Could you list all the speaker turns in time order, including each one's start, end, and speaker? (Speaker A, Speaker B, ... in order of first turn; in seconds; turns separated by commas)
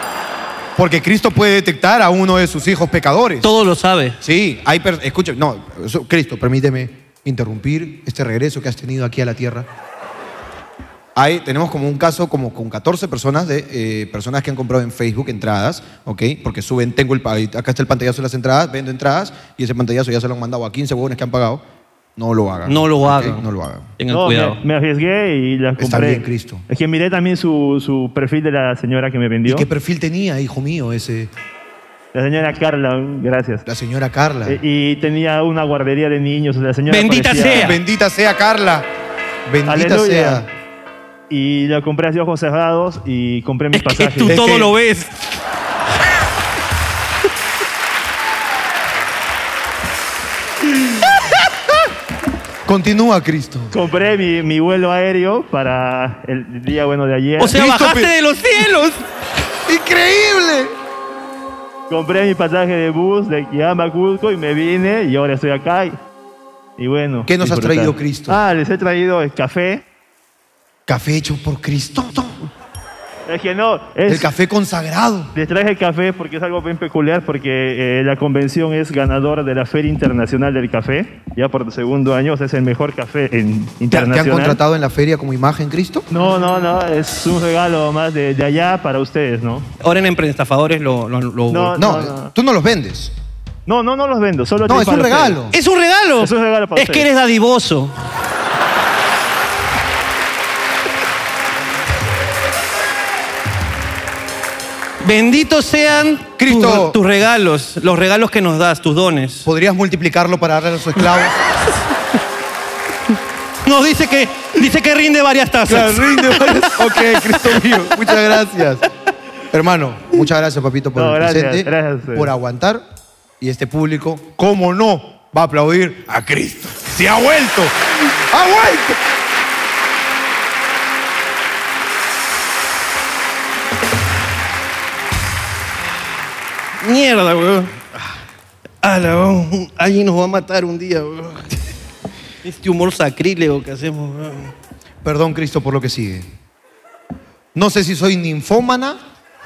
Speaker A: 0.8-3.5, Speaker B: 3.4-4.2, Speaker A: 4.2-9.7, Speaker A: 11.1-21.6, Speaker A: 22.1-23.9, Speaker B: 22.6-23.4, Speaker B: 24.0-24.6, Speaker C: 24.1-29.6, Speaker A: 25.8-26.6, Speaker A: 29.4-31.3, Speaker C: 32.1-33.6, Speaker A: 33.6-34.6, Speaker C: 34.5-37.7, Speaker B: 36.9-37.8, Speaker A: 37.5-38.9, Speaker A: 39.5-40.5, Speaker C: 39.7-40.4, Speaker C: 41.3-44.4, Speaker B: 43.7-45.2, Speaker A: 44.2-44.7, Speaker A: 52.6-53.7, Speaker C: 53.7-57.5, Speaker B: 57.4-59.0, Speaker A: 57.5-58.1, Speaker A: 59.7-60.7, Speaker C: 61.9-66.0, Speaker C: 66.8-69.8, Speaker A: 67.2-68.4, Speaker A: 70.9-72.5, Speaker C: 73.3-74.2, Speaker A: 74.0-75.3, Speaker C: 75.3-84.6, Speaker A: 83.9-86.1, Speaker C: 86.1-89.7, Speaker B: 89.8-91.8, Speaker C: 91.5-92.3, Speaker A: 91.8-93.1, Speaker C: 93.7-95.4, Speaker A: 94.7-95.5, Speaker B: 95.5-97.9, Speaker C: 96.2-97.0, Speaker B: 105.0-109.5, Speaker A: 106.4-107.0, Speaker A: 109.4-111.3, Speaker B: 113.6-117.5, Speaker A: 115.7-118.8, Speaker A: 119.5-122.8, Speaker C: 121.0-122.2, Speaker A: 123.4-129.0, Speaker B: 136.8-137.9, Speaker B: 138.8-141.5, Speaker B: 142.4-144.5, Speaker A: 145.0-146.3, Speaker A: 147.5-149.0